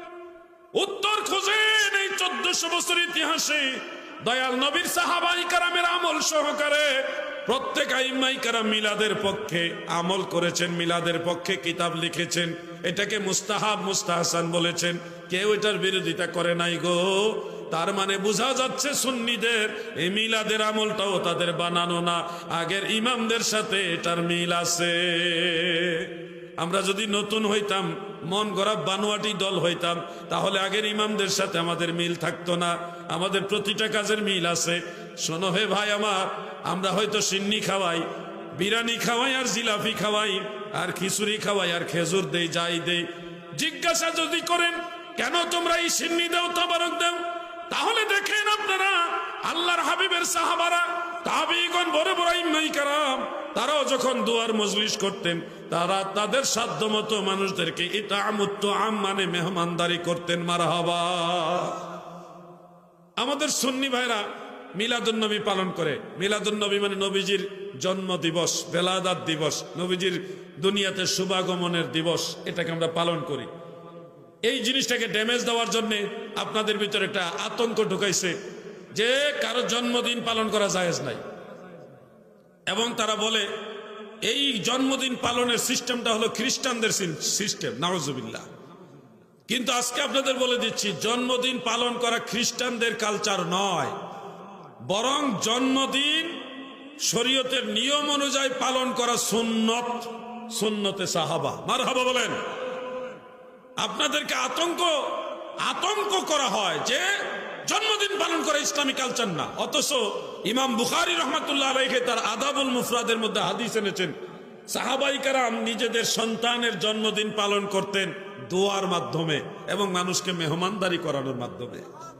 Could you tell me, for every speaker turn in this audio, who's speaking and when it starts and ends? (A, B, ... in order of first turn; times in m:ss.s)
0:00.7-1:01.8 A
1:03.2-1:13.5 A
1:14.4-1:18.4 A
1:18.9-1:21.2 A
1:22.7-1:23.5 A
1:24.2-1:28.5 A
1:29.5-1:33.9 A
1:34.9-1:36.4 A
1:37.0-1:42.4 A
1:43.8-1:47.1 A
1:47.7-1:54.1 A
1:54.7-2:01.8 A